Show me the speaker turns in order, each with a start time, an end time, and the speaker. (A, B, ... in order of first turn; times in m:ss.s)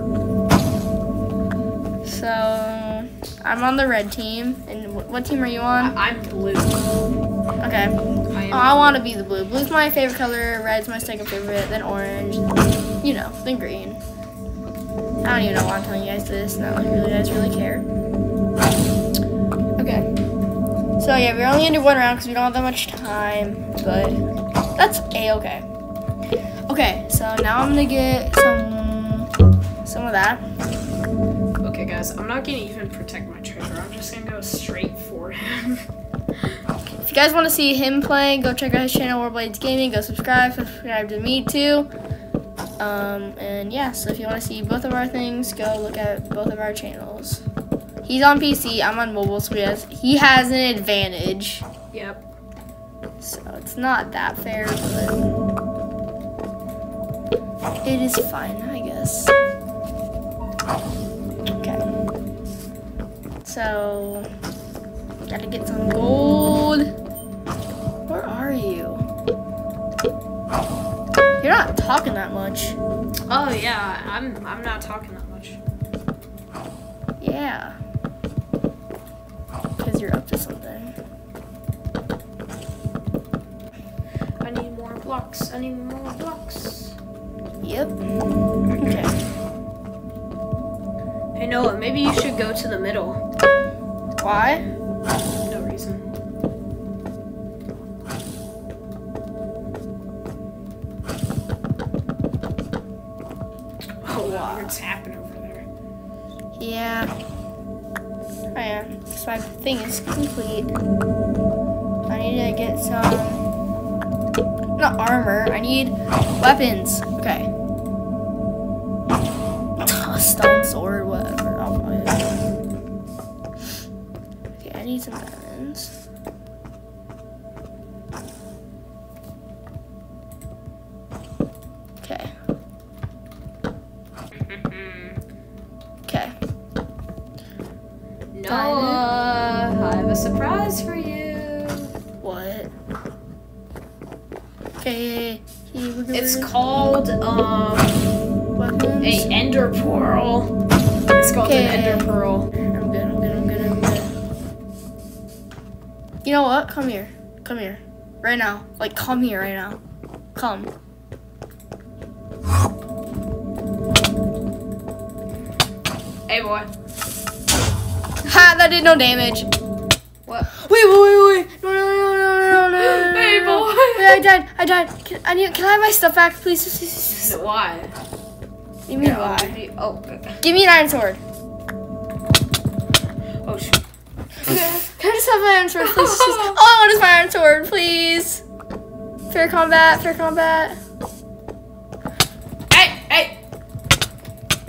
0:02.0-0:06.0 A
0:05.8-0:06.8 B
0:07.6-0:08.0 A
0:08.3-0:09.0 B
0:08.5-0:12.4 A
0:13.0-0:14.0 A
0:15.2-0:17.9 A
0:19.8-0:20.1 A
0:21.0-0:24.2 A
0:24.8-0:25.7 A
0:26.7-0:29.3 A
0:29.8-0:30.4 A
0:31.6-0:35.9 B
0:37.0-0:41.9 A
0:42.8-0:47.4 A
0:48.0-0:51.7 A
0:51.9-0:52.2 B
0:53.2-0:55.3 A
0:57.8-0:59.3 A
1:01.6-1:01.9 A
1:03.4-1:04.3 A
1:05.2-1:06.9 A
1:08.1-1:09.0 A
1:11.4-1:12.8 A
1:13.3-1:15.6 B
1:17.2-1:17.8 A
1:19.8-1:20.9 A
1:24.4-1:27.0 B
1:27.6-1:28.0 A
1:28.8-1:29.2 A
1:31.4-1:33.2 B
1:34.2-1:34.6 A
1:35.5-1:36.1 B
1:44.0-1:45.7 B
1:44.2-1:44.8 A
1:46.6-1:47.1 A
1:48.5-1:50.7 A
1:52.1-1:53.5 A
1:54.8-1:57.5 A
1:59.8-2:02.3 A
2:04.6-2:05.9 A
2:12.0-2:12.3 A
2:14.5-2:15.2 B
2:16.1-2:16.4 A
2:18.3-2:21.9 B
2:18.5-2:19.1 A
2:22.2-2:22.7 A
2:24.8-2:26.5 A
2:26.1-2:28.0 B
2:28.6-2:29.3 A
2:29.0-2:30.5 B
2:31.2-2:32.5 B
2:31.4-2:34.1 A
2:36.2-2:39.8 A
2:40.4-2:40.7 A
2:46.3-2:46.7 B
2:48.2-2:49.5 A
2:50.5-2:57.4 A
2:52.8-2:54.2 B
2:57.1-2:57.9 B
2:58.9-2:59.6 A
2:59.0-3:00.4 B
3:00.4-3:01.2 A
3:03.4-3:03.8 B
3:04.5-3:04.9 B
3:04.5-3:08.4 A
3:05.8-3:06.6 B
3:09.3-3:10.8 A
3:12.7-3:13.4 B